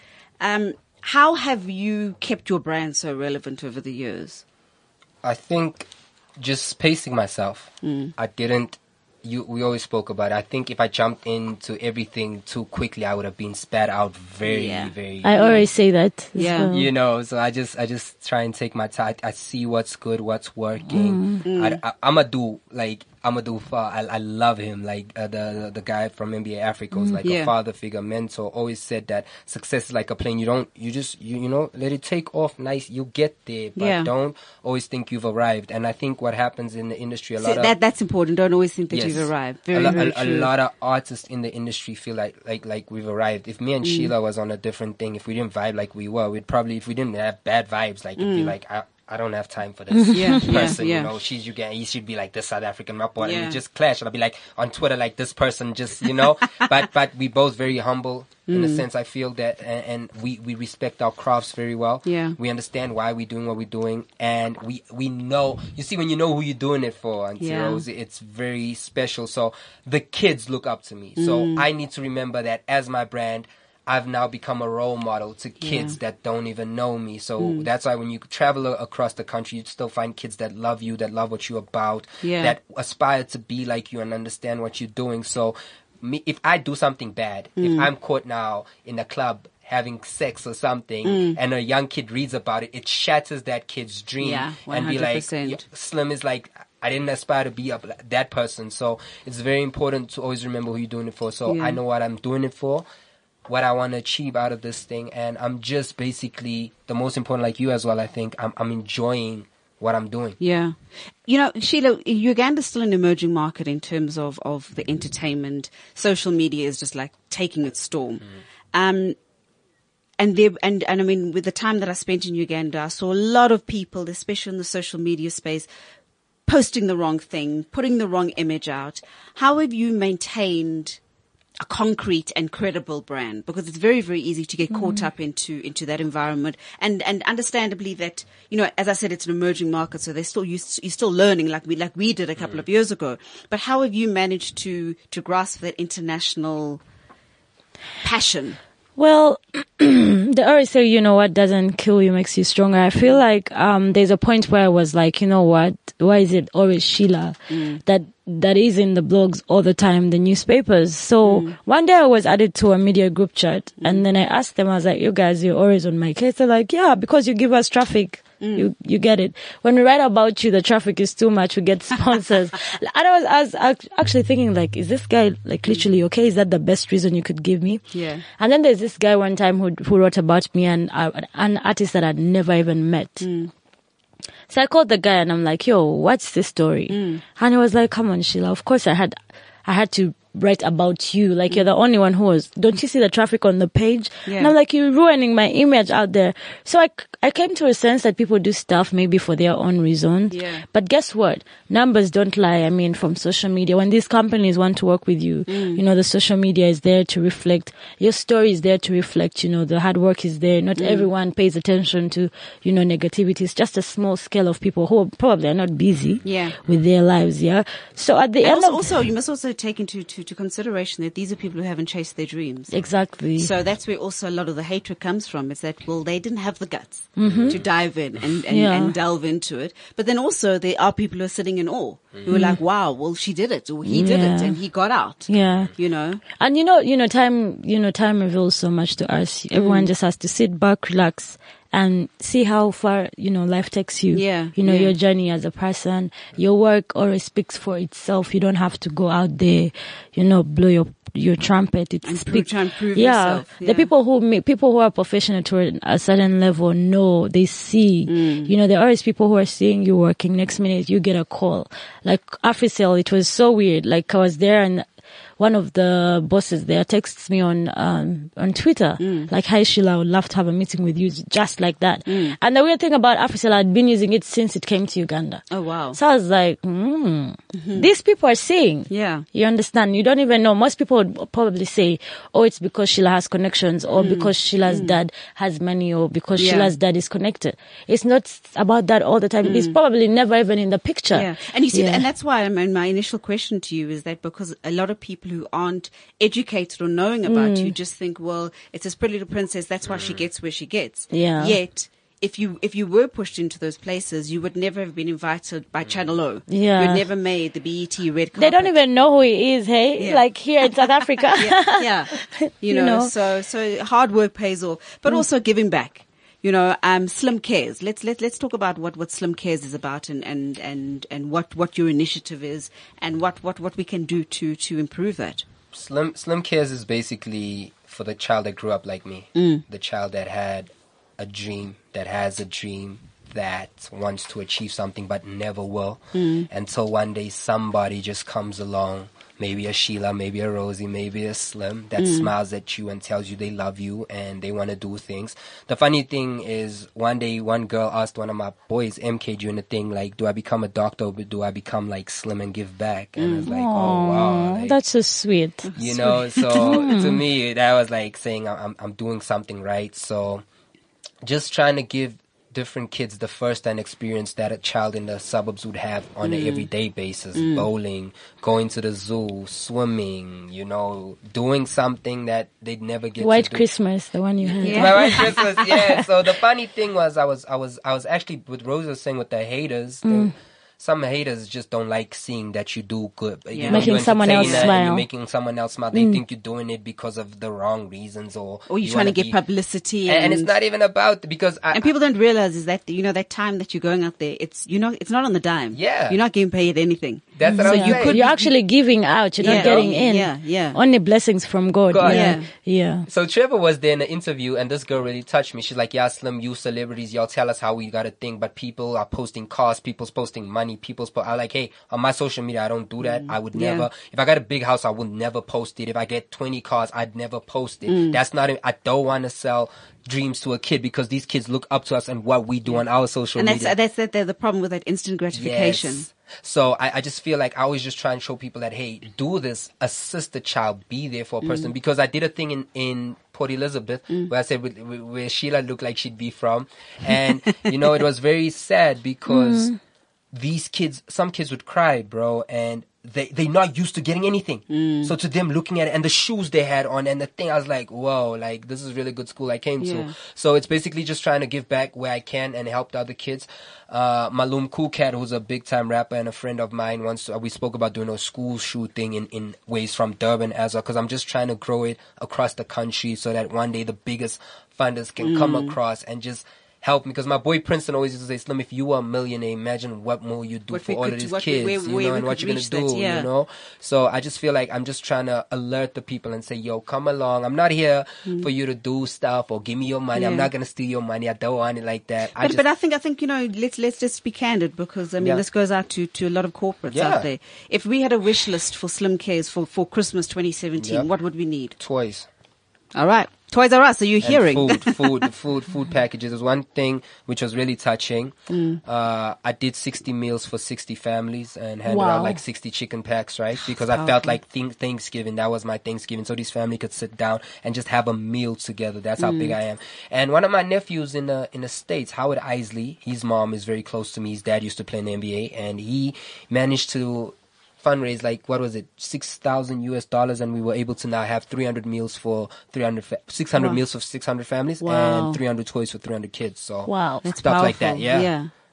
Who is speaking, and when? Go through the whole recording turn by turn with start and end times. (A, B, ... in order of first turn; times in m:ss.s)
0:00.4-0:04.4 A
0:05.2-0:15.6 B
0:07.8-0:08.1 A
0:14.4-0:15.6 A
0:15.2-0:16.9 C
0:16.3-0:16.7 A
0:16.7-0:37.7 B
0:20.9-0:21.4 C
0:21.4-0:21.8 A
0:26.9-0:27.2 C
0:27.2-0:27.5 A
0:33.8-0:34.1 A
0:37.4-0:40.5 A
0:38.9-1:42.8 B
0:43.8-0:44.1 A
0:48.2-0:48.5 A
0:49.9-0:50.4 C
0:50.1-0:51.1 A
0:53.2-0:53.6 A
0:58.5-0:58.8 A
1:02.0-1:02.4 A
1:07.4-1:07.8 A
1:11.2-1:11.6 A
1:15.6-1:16.0 A
1:17.4-1:17.6 A
1:22.2-1:22.5 A
1:27.6-1:27.9 A
1:31.0-1:31.4 A
1:34.2-1:35.6 A
1:41.5-1:41.8 A
1:43.5-1:50.4 B
1:50.4-1:50.7 A
1:51.3-1:59.2 A
2:00.2-2:05.7 A
2:06.4-2:11.0 A
2:11.6-2:26.8 A
2:28.0-2:28.6 A
2:29.0-2:57.8 C
2:37.5-2:37.8 A
2:41.2-2:41.6 A
2:48.4-2:48.7 A
2:57.9-2:58.2 A
2:58.4-3:03.2 C
3:03.2-3:03.5 A
3:04.5-3:38.9 C
3:06.9-3:07.2 A
3:14.3-3:14.5 A
3:20.3-3:20.6 A
3:25.5-3:25.8 A
3:30.8-3:31.1 A
3:36.2-3:36.6 A
3:38.4-3:42.8 A
3:42.7-3:43.5 C
3:43.4-3:56.2 A
3:47.2-3:47.6 C
3:47.2-3:47.7 B
3:48.5-3:48.9 C
3:52.3-3:52.6 C
3:53.8-3:54.6 C
3:55.3-3:55.7 C
3:55.4-3:55.7 B
3:56.4-4:24.8 C
3:59.5-3:59.9 A
4:04.1-4:04.9 A
4:12.0-4:13.9 A
4:18.1-4:18.5 A
4:25.4-4:52.0 C
4:29.0-4:29.3 A
4:32.1-4:32.4 A
4:35.5-4:36.0 A
4:37.5-4:37.9 A
4:38.9-4:39.2 A
4:44.0-4:44.9 A
4:46.4-4:46.7 A
4:49.4-4:49.7 A
4:51.1-5:08.7 A
4:57.2-4:57.7 C
5:01.1-5:01.6 C
5:06.5-5:07.0 C
5:08.4-5:13.1 C
5:10.0-5:25.4 A
5:25.7-5:54.8 B
5:29.4-5:29.6 A
5:36.2-5:36.5 A
5:42.0-5:42.3 A
5:53.2-5:53.5 A
5:53.4-5:55.7 C
5:55.6-5:56.8 A
5:55.7-6:00.4 B
5:56.5-5:57.2 C
6:01.2-6:13.6 B
6:06.2-6:06.7 A
6:07.3-6:07.6 A
6:13.2-6:16.0 C
6:14.6-6:29.4 B
6:14.6-6:15.4 A
6:20.0-6:20.3 C
6:23.5-6:24.7 A
6:23.7-6:25.0 C
6:25.9-6:26.2 C
6:28.7-6:30.5 A
6:30.0-6:31.9 B
6:31.7-6:38.5 A
6:35.7-6:36.2 B
6:37.3-6:38.3 B
6:37.5-6:43.0 C
6:39.4-6:40.8 A
6:39.4-6:39.9 B
6:41.9-6:42.4 B
6:42.0-6:42.5 A
6:43.1-7:03.7 B
6:53.0-6:53.9 A
6:57.9-6:58.2 A
7:03.4-7:06.1 A
7:05.3-7:19.7 B
7:11.4-7:11.7 A
7:19.3-7:19.8 C
7:20.3-8:02.6 B
7:24.7-7:25.1 A
7:29.8-7:30.1 A
7:45.2-7:45.7 A
7:50.7-7:53.3 A
8:00.1-8:00.5 A
8:02.4-8:11.7 A
8:06.9-8:07.3 B
8:10.8-8:11.1 B
8:11.8-8:12.3 B
8:12.9-8:15.1 A
8:14.2-8:48.3 B
8:18.5-8:18.8 A
8:21.9-8:22.4 C
8:23.9-8:24.4 A
8:29.2-8:29.5 A
8:44.9-8:45.4 A
8:46.8-8:47.3 C
8:47.2-8:48.5 A